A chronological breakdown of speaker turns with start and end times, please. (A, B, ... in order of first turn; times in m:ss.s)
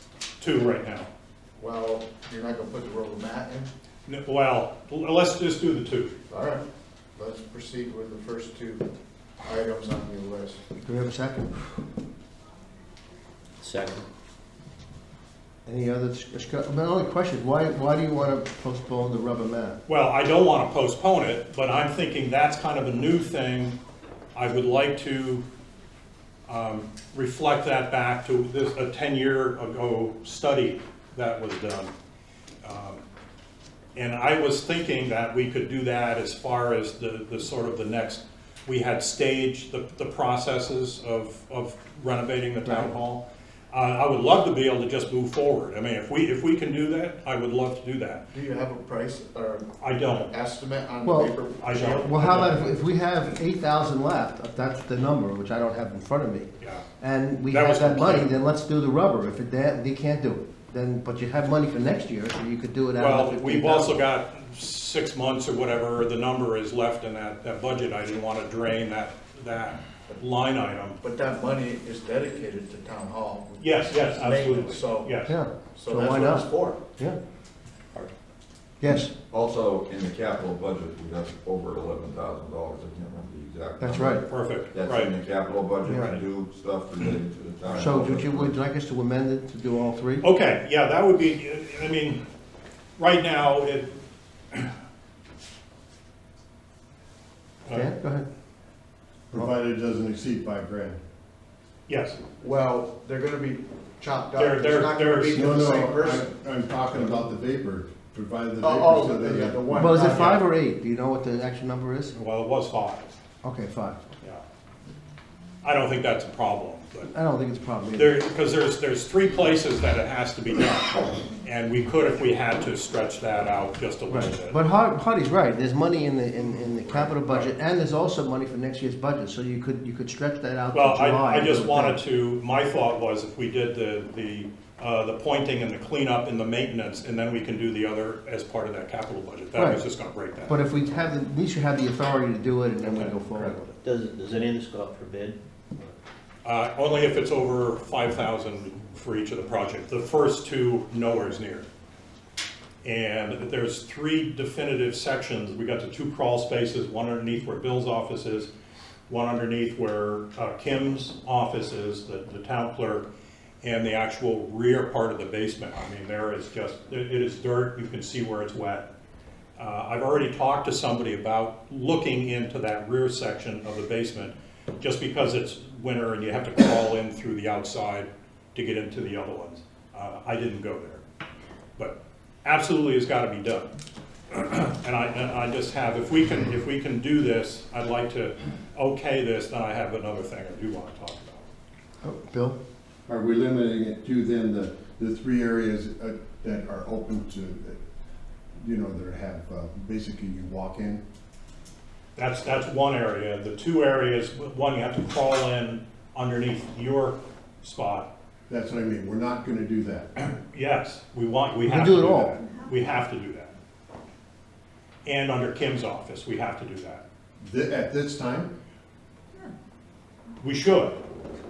0:00.4-0:01.1 A
0:01.6-0:03.7 B
0:04.1-0:06.1 A
0:06.3-0:06.6 B
0:07.2-0:08.9 B
0:09.4-0:10.6 B
0:10.8-0:11.8 C
0:13.6-0:14.1 D
0:15.7-0:19.8 C
0:19.9-0:23.8 A
0:24.4-0:25.4 A
0:26.5-0:31.9 A
0:32.6-0:33.0 A
0:34.0-0:48.2 A
0:42.6-0:42.9 C
0:48.3-0:52.4 B
0:49.8-0:50.3 A
0:51.0-1:04.0 C
0:51.6-0:52.7 A
0:56.6-0:56.8 A
0:57.5-0:58.3 A
1:03.0-1:11.0 A
1:11.0-1:16.8 B
1:13.6-1:15.4 A
1:15.3-1:17.2 C
1:18.8-1:19.1 C
1:19.3-1:28.6 E
1:23.8-1:24.2 C
1:24.3-1:25.2 A
1:25.8-1:26.2 C
1:25.9-1:26.2 A
1:27.7-1:30.3 C
1:30.2-1:32.2 A
1:33.0-1:33.9 A
1:37.7-1:37.9 A
1:37.7-1:38.3 C
1:39.3-1:41.0 F
1:41.9-1:42.2 A
1:42.4-1:46.3 B
1:44.4-1:45.7 A
1:45.3-1:49.6 F
1:48.6-1:50.4 B
1:49.7-1:52.1 C
1:50.0-1:50.4 A
1:52.1-1:53.1 A
1:53.4-1:54.0 C
1:55.6-1:57.1 A
1:57.1-1:58.2 C
1:58.0-2:04.6 A
2:04.1-2:12.0 C
2:07.0-2:07.5 A
2:10.7-2:20.6 A
2:19.6-2:19.8 C
2:20.5-2:23.7 C
2:22.9-2:23.7 A
2:23.8-2:25.4 D
2:26.4-2:31.7 A
2:32.8-2:38.5 A
2:39.1-2:43.1 A
2:43.6-2:48.9 A
2:49.6-3:01.0 A
3:01.8-3:03.7 A
3:04.3-3:11.4 A
3:12.0-3:12.6 C
3:13.1-3:17.8 F
3:18.6-3:21.0 F
3:22.2-3:28.1 A
3:28.5-3:30.1 F
3:30.2-3:33.6 A
3:31.6-3:32.4 C
3:35.0-3:37.0 A
3:37.4-3:38.5 F
3:40.4-3:41.0 A